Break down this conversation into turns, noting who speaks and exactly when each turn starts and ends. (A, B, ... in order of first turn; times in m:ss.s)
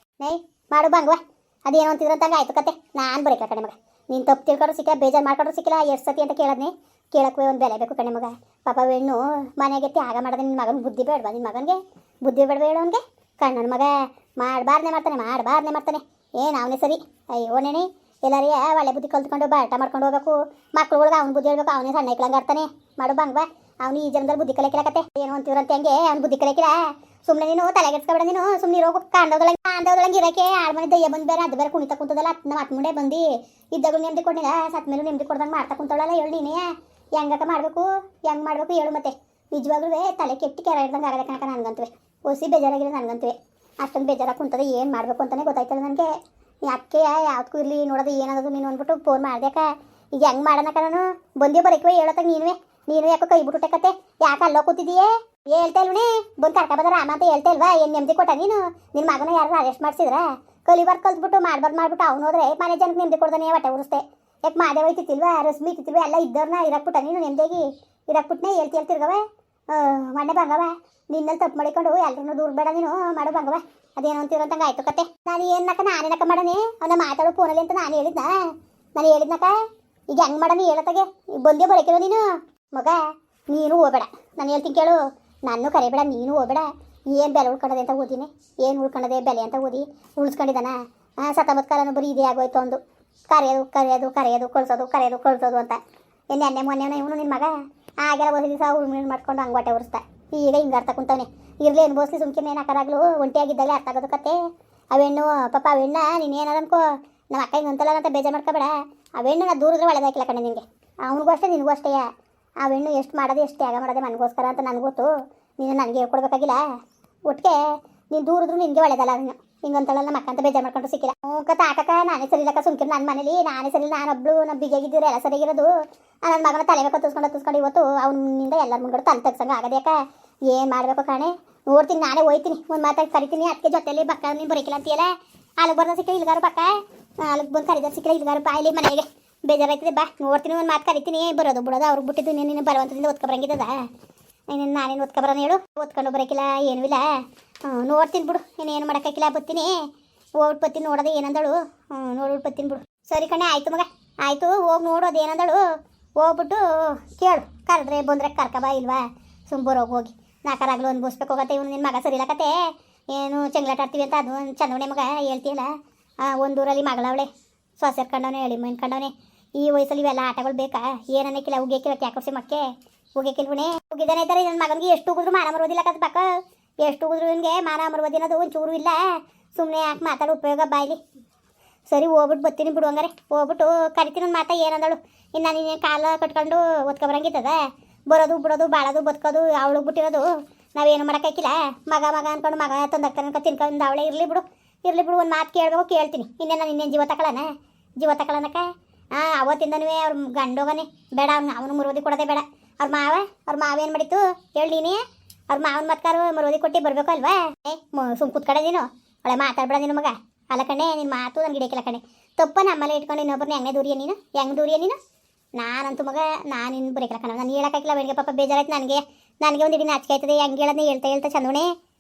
0:00.2-0:46.1 A
0:46.6-1:18.4 A
1:19.0-1:19.5 A
1:20.1-1:23.0 A
1:23.5-1:35.8 A
1:36.3-1:44.4 A
1:44.9-1:52.1 A
1:52.6-1:56.6 A
1:57.3-2:05.7 A
2:06.2-2:10.0 A
2:10.5-2:23.8 A
2:24.5-2:27.1 A
2:27.6-2:29.7 A
2:30.4-2:35.6 A
2:36.2-2:42.6 A
2:43.1-2:45.7 A
2:46.2-2:56.3 A
2:56.8-2:59.0 A
2:59.5-3:01.0 A
3:01.9-3:10.2 A
3:10.8-3:17.5 A
3:18.0-3:25.0 A
3:25.5-3:35.0 A
3:35.6-3:41.7 A